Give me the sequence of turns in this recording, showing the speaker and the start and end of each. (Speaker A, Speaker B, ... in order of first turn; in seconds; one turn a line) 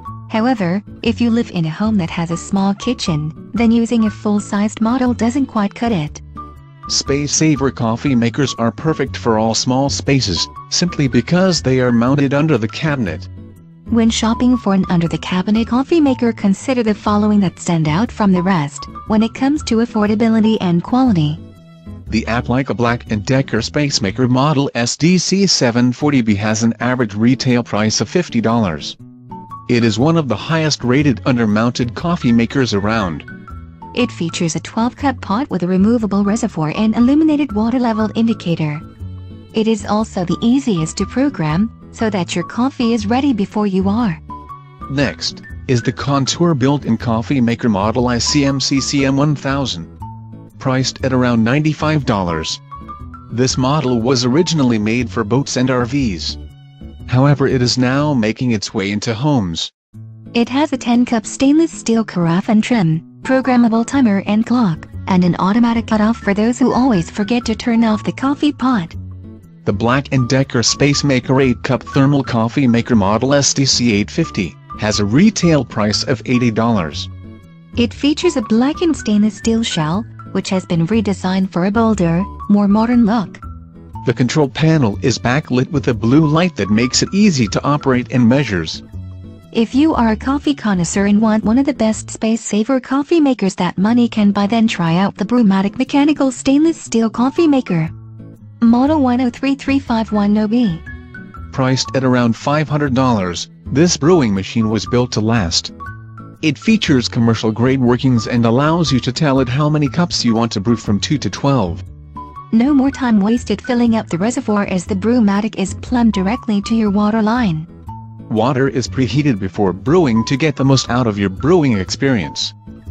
Speaker A: 0.3-6.2
Speaker B: 6.9-13.3
Speaker A: 13.9-21.4
Speaker B: 22.1-29.0
Speaker B: 29.7-33.3
Speaker A: 33.9-38.8
Speaker A: 39.5-44.2
Speaker B: 44.9-49.9
Speaker B: 50.6-52.6
Speaker B: 53.3-56.4
Speaker B: 57.1-59.7
Speaker A: 60.3-69.0
Speaker B: 69.7-77.1
Speaker A: 77.8-83.4
Speaker B: 84.0-88.8
Speaker A: 89.5-97.9
Speaker A: 98.6-100.8
Speaker B: 101.5-105.7
Speaker B: 106.4-111.8
Speaker A: 112.5-117.7
Speaker B: 118.3-122.5